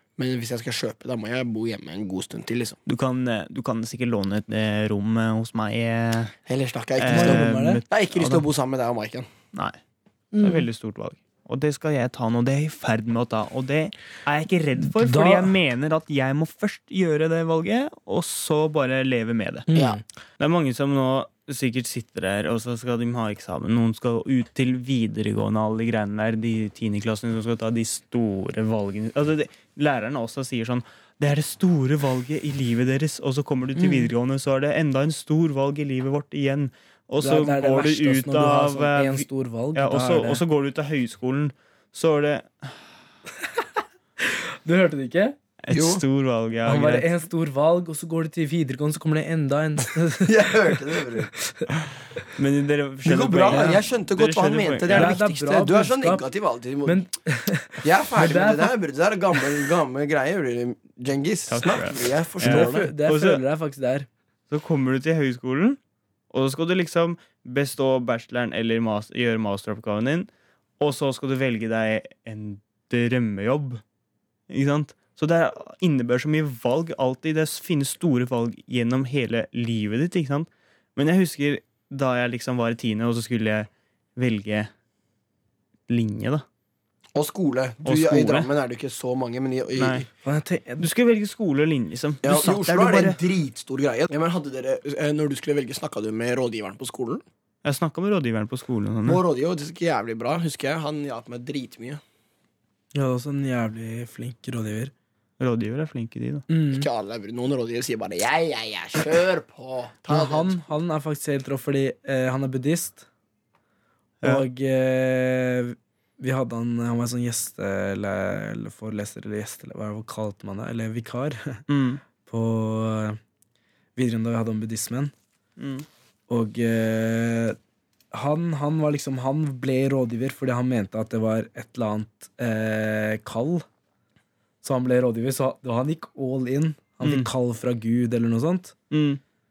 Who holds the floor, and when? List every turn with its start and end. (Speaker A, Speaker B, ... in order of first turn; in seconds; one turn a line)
Speaker A: 0.2-2.8
Speaker B: 2.9-6.4
Speaker A: 6.5-9.3
Speaker B: 7.0-8.4
Speaker C: 7.1-7.8
Speaker C: 10.3-10.6
Speaker B: 10.4-19.7
Speaker C: 14.9-15.5
Speaker C: 19.7-20.0
Speaker A: 19.7-20.0
Speaker B: 20.4-42.9
Speaker C: 33.8-34.1
Speaker C: 37.2-40.4
Speaker C: 44.2-45.4
Speaker B: 45.6-47.1
Speaker A: 45.7-46.0
Speaker C: 46.6-50.8
Speaker A: 50.2-51.3
Speaker C: 51.5-51.7
Speaker B: 52.4-55.2
Speaker A: 53.0-57.0
Speaker C: 54.9-56.2
Speaker C: 56.9-58.7
Speaker A: 57.8-62.9
Speaker B: 61.5-63.4
Speaker C: 62.4-64.1
Speaker B: 64.5-65.8
Speaker B: 66.3-70.3
Speaker B: 70.8-73.8
Speaker B: 74.5-84.7
Speaker B: 85.9-86.4
Speaker A: 87.1-90.1
Speaker B: 87.8-88.5
Speaker B: 89.8-90.0
Speaker C: 90.2-90.9
Speaker B: 90.8-93.2
Speaker A: 92.2-97.2
Speaker B: 97.6-99.2
Speaker A: 99.0-102.0
Speaker C: 102.9-104.9
Speaker B: 105.4-106.4
Speaker C: 106.5-106.9
Speaker A: 106.7-110.5
Speaker C: 110.1-113.1
Speaker C: 114.2-121.6
Speaker B: 121.7-122.0
Speaker C: 122.2-123.2
Speaker C: 124.0-125.1
Speaker B: 125.6-125.9
Speaker C: 126.3-127.6
Speaker C: 128.1-133.6
Speaker C: 134.6-138.7
Speaker B: 137.0-137.3
Speaker B: 138.9-139.2